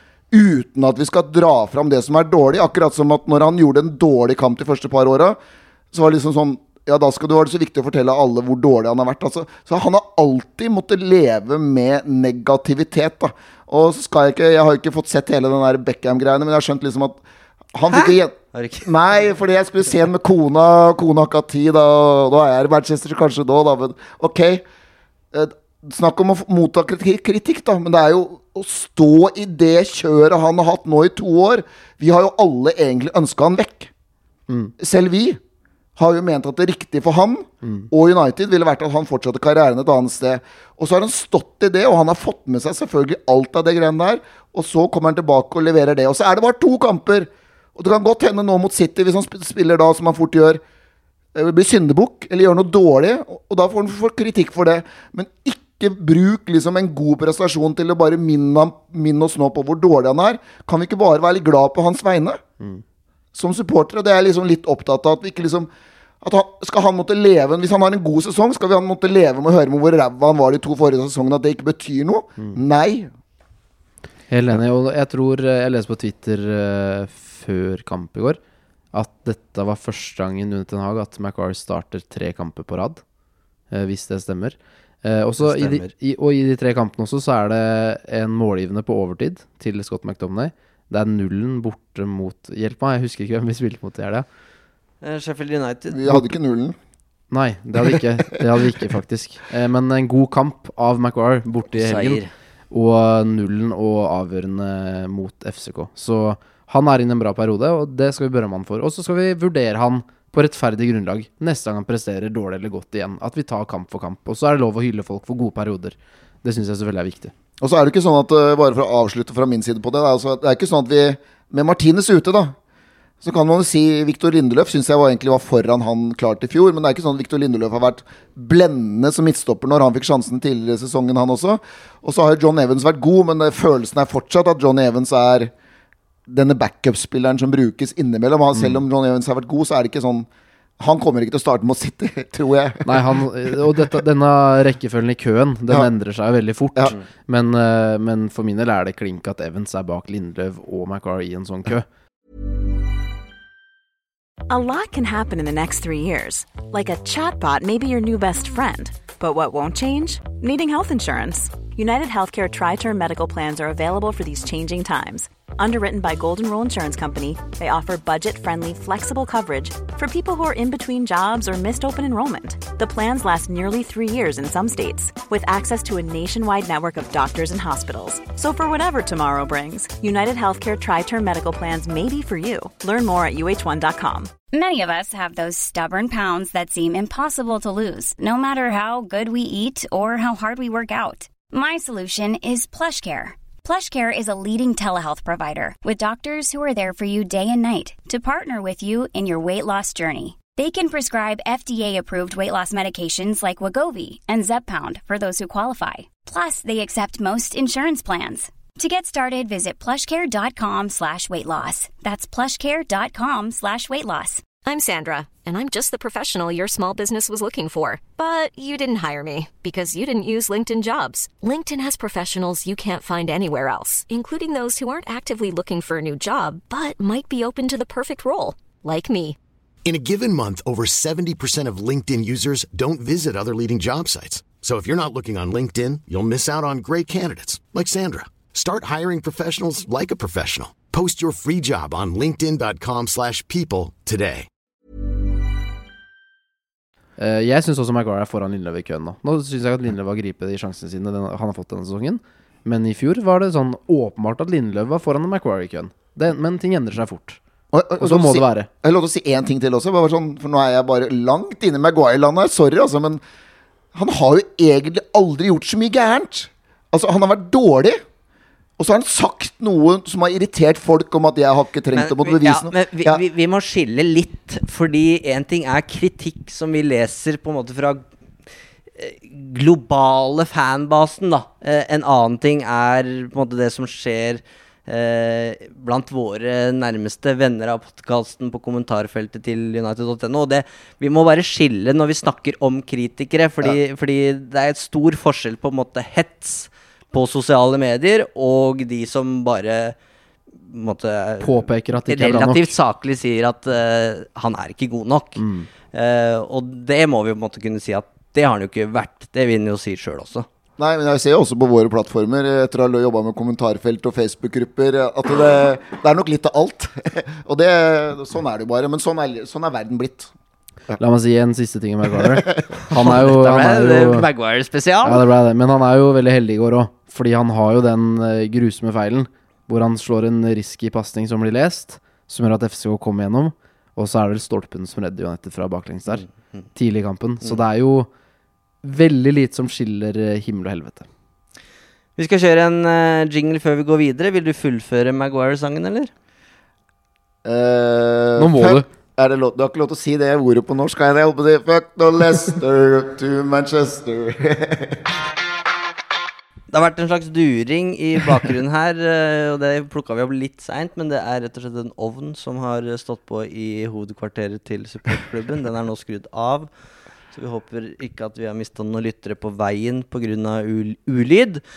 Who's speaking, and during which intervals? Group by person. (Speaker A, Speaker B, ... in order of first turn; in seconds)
Speaker A: 0.3-5.4, 5.9-17.2, 17.7-24.6, 25.3-33.9, 34.8-35.4, 36.0-50.6, 51.4-62.4, 63.3-65.7, 66.2-73.1, 95.9-96.8, 117.6-122.6, 123.2-135.5, 136.3-140.3, 140.8-143.6, 257.7-263.2, 263.9-268.0, 268.8-273.2, 310.8-320.3, 322.2-322.6, 347.4-355.1
Speaker B: 17.9-18.9, 85.4-85.9, 95.0-96.0, 101.7-102.3, 271.9-278.1, 279.0-300.0, 300.6-310.5, 322.9-325.2, 342.2-346.1, 356.7-366.7, 367.3-371.6
Speaker C: 37.6-37.9, 74.3-78.4, 78.9-83.0, 83.7-94.3, 97.3-117.3, 138.6-138.8, 142.9-151.9, 247.2-257.4, 258.0-258.7, 301.4-302.7, 305.4-305.7, 321.0-324.3, 325.0-338.1, 338.8-341.1, 348.4-348.9
Speaker D: 154.5-184.3
Speaker E: 184.5-214.4
Speaker F: 214.6-229.4
Speaker G: 229.8-244.5